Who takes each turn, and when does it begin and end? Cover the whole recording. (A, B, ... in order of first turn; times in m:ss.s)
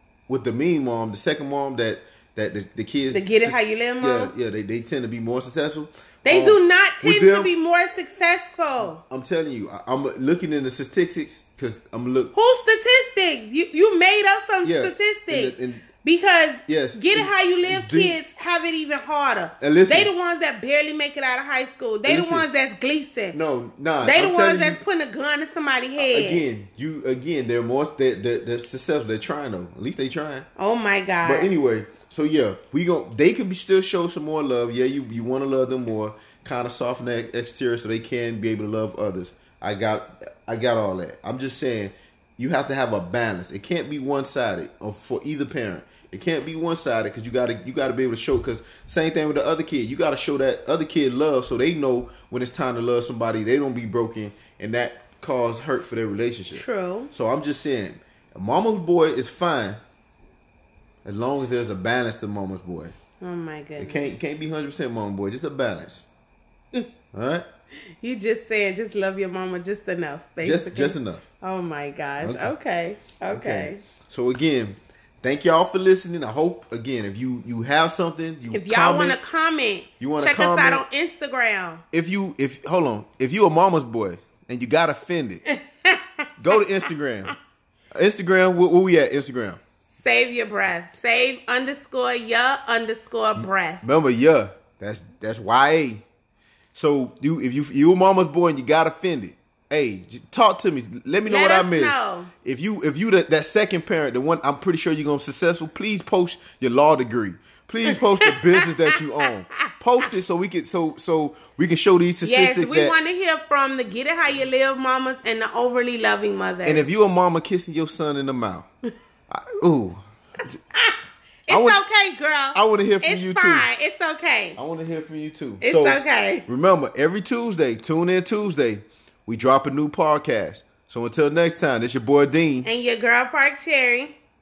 0:00.3-0:07.5 A
0:03.1-0:04.3 B
0:06.2-0:09.0 B
0:09.0-0:12.3 A
0:12.3-0:23.4 B
0:14.6-0:15.9 A
0:16.7-0:18.2 A
0:19.6-0:20.1 A
0:22.0-0:22.5 A
0:23.3-0:24.8 A
0:24.0-0:26.4 B
0:26.0-0:30.5 A
0:30.6-0:31.5 B
0:31.2-0:59.8 A
0:56.5-0:57.1 B
1:01.0-1:02.9 A
1:03.2-1:04.1 B
1:03.8-1:06.1 A
1:07.1-1:07.4 A
1:08.0-1:13.8 B
1:10.4-1:11.2 A
1:12.2-1:12.5 A
1:13.3-1:19.2 A
1:18.5-1:21.8 B
1:20.0-1:20.8 A
1:21.9-1:25.4 A
1:25.5-1:26.6 B
1:26.4-1:27.3 A
1:28.0-1:29.6 A
1:30.0-1:33.8 B
1:33.4-1:36.0 A
1:36.7-1:53.0 A
1:41.3-1:42.3 B
1:47.9-1:49.7 B
1:52.2-1:56.8 B
1:56.6-1:58.7 A
1:59.3-2:00.0 A
2:01.5-2:04.6 B
2:01.5-2:01.8 A
2:02.5-2:03.7 A
2:04.6-2:12.7 A
2:05.6-2:06.5 B
2:12.6-2:14.2 B